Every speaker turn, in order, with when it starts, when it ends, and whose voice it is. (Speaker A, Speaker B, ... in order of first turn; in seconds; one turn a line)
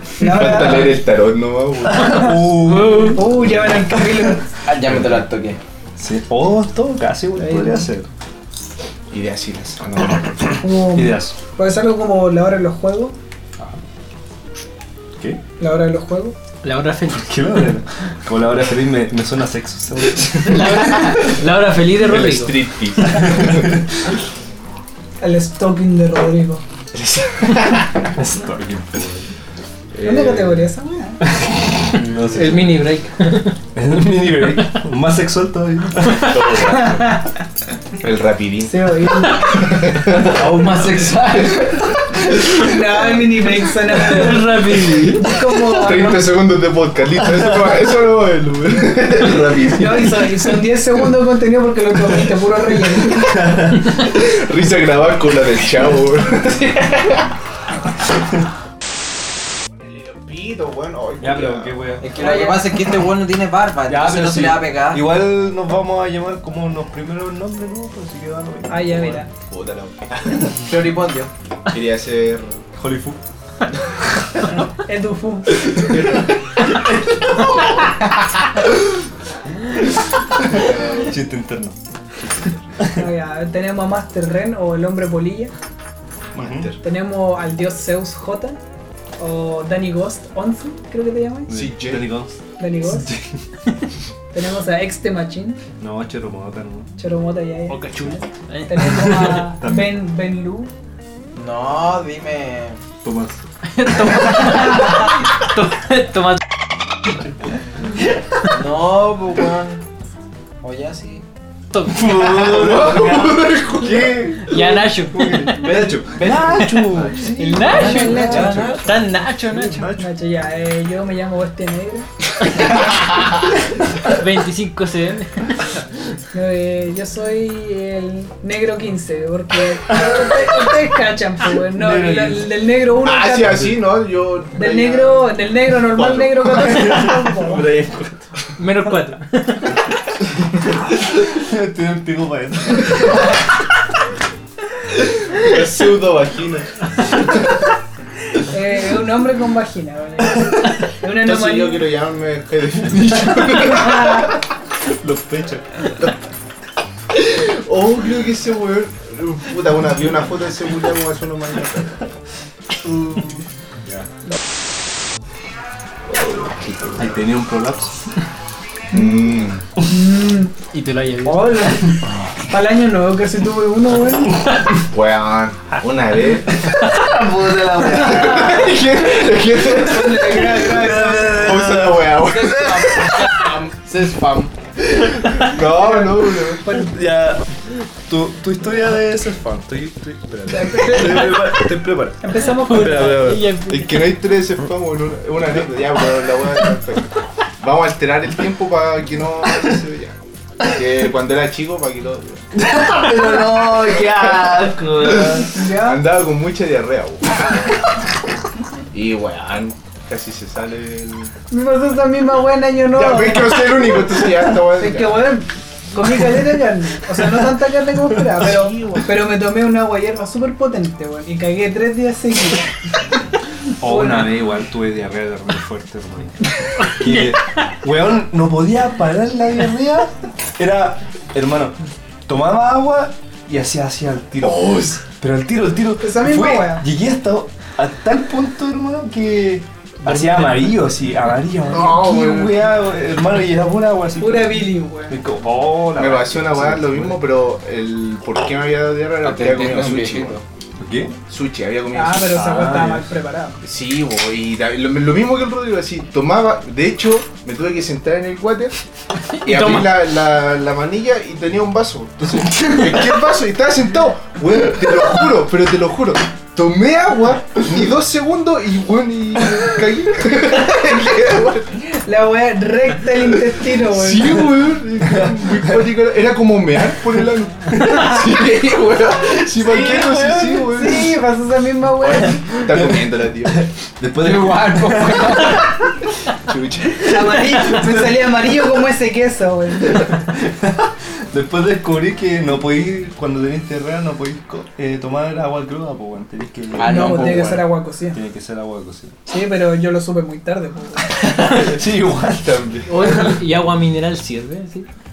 Speaker A: 0.2-1.0
Speaker B: 0.2-2.8
Speaker C: 1.9-3.7
Speaker A: 2.8-4.5
Speaker D: 4.6-5.6
Speaker C: 4.9-5.2
Speaker C: 6.0-8.1
Speaker A: 7.4-7.9
Speaker B: 9.1-10.6
Speaker A: 10.6-13.2
Speaker C: 10.6-11.3
Speaker A: 15.6-16.4
Speaker E: 16.6-17.4
Speaker C: 17.1-21.1
Speaker E: 20.4-22.6
Speaker B: 22.0-23.8
Speaker C: 23.1-23.6
Speaker A: 25.2-26.6
Speaker B: 26.9-28.2
Speaker C: 28.1-29.3
Speaker B: 29.9-30.5
Speaker A: 30.0-31.2
Speaker C: 31.3-32.8
Speaker E: 32.3-33.6
Speaker C: 33.7-36.7
Speaker B: 36.1-37.2
Speaker B: 38.0-40.8
Speaker A: 38.6-39.7
Speaker D: 40.1-41.9
Speaker A: 42.5-46.2
Speaker E: 43.9-45.4
Speaker B: 45.7-50.3
Speaker A: 49.6-53.4
Speaker C: 53.2-53.8
Speaker B: 53.8-57.3
Speaker B: 59.8-61.8
Speaker C: 61.2-62.3
Speaker D: 62.0-65.0
Speaker A: 62.2-62.6
Speaker C: 63.9-69.2
Speaker A: 68.7-69.3
Speaker B: 69.5-70.7
Speaker D: 70.6-71.3
Speaker B: 71.7-72.6
Speaker C: 72.8-73.2
Speaker A: 74.8-75.9
Speaker B: 75.8-76.3
Speaker B: 80.5-81.1
Speaker C: 80.5-81.8
Speaker A: 82.9-85.5
Speaker B: 86.3-86.8
Speaker C: 86.3-86.7
Speaker A: 86.8-88.6
Speaker A: 89.2-91.5
Speaker C: 91.5-92.4
Speaker B: 91.5-92.1
Speaker A: 92.6-93.1
Speaker C: 93.0-93.3
Speaker A: 94.3-95.6
Speaker C: 95.8-96.9
Speaker A: 97.0-97.8
Speaker E: 97.7-99.3
Speaker A: 98.7-100.7
Speaker C: 99.0-100.0
Speaker D: 101.3-102.8
Speaker C: 103.0-103.4
Speaker E: 103.7-106.4
Speaker D: 108.5-109.8
Speaker D: 110.6-111.2
Speaker E: 111.7-112.5
Speaker C: 111.8-120.1
Speaker B: 112.3-114.7
Speaker E: 114.4-119.9
Speaker D: 115.5-118.8
Speaker A: 117.6-118.9
Speaker A: 119.9-122.8
Speaker E: 122.4-123.0
Speaker E: 124.0-125.8
Speaker A: 126.3-133.6
Speaker C: 129.9-130.7
Speaker C: 131.6-132.6
Speaker B: 133.0-137.0
Speaker A: 134.5-137.7
Speaker C: 136.6-138.3
Speaker E: 138.6-139.8
Speaker C: 141.2-143.4
Speaker B: 145.3-147.3
Speaker A: 148.4-151.8
Speaker B: 151.2-154.4
Speaker C: 153.7-154.2
Speaker C: 154.8-155.9
Speaker B: 157.1-162.1
Speaker C: 163.8-164.1
Speaker B: 166.1-167.2
Speaker C: 166.9-168.1
Speaker A: 168.9-169.3
Speaker B: 168.9-169.6
Speaker A: 169.8-170.5
Speaker E: 170.7-171.8
Speaker A: 171.2-174.4
Speaker B: 174.8-176.7
Speaker C: 176.5-178.8
Speaker B: 177.8-180.6
Speaker A: 179.7-181.4
Speaker C: 180.4-183.3
Speaker B: 181.2-183.5
Speaker D: 182.3-184.5
Speaker B: 185.3-186.6
Speaker A: 185.7-186.9
Speaker C: 186.7-193.5
Speaker A: 190.5-191.6
Speaker A: 192.2-193.4
Speaker E: 192.6-194.1
Speaker B: 193.7-202.4
Speaker C: 202.5-205.6
Speaker B: 205.3-207.6
Speaker A: 205.5-206.0
Speaker B: 208.9-211.3
Speaker A: 211.5-213.8
Speaker B: 212.9-215.2
Speaker A: 214.6-223.0
Speaker B: 218.4-219.1
Speaker C: 223.8-247.2
Speaker A: 223.8-224.3
Speaker B: 234.4-235.0
Speaker A: 236.0-236.9
Speaker B: 241.7-242.7
Speaker A: 244.2-245.2
Speaker B: 245.9-250.4
Speaker D: 249.2-250.4
Speaker C: 250.8-251.2
Speaker B: 251.3-252.4
Speaker A: 251.9-253.6
Speaker C: 252.3-253.1
Speaker B: 253.6-258.8
Speaker E: 259.2-260.0
Speaker B: 259.4-271.9
Speaker C: 262.2-263.1
Speaker A: 271.9-274.5
Speaker B: 273.8-281.1
Speaker C: 275.1-275.9
Speaker C: 277.7-278.0
Speaker C: 279.6-280.8
Speaker A: 280.6-282.4
Speaker B: 282.0-283.7
Speaker C: 282.7-285.7
Speaker D: 284.2-285.7
Speaker B: 286.5-287.4
Speaker A: 287.1-290.1
Speaker C: 287.4-288.0
Speaker C: 289.9-299.1
Speaker D: 296.7-297.6
Speaker A: 296.8-298.2
Speaker A: 299.2-301.2
Speaker C: 301.2-303.2
Speaker B: 302.4-303.4
Speaker E: 302.9-304.9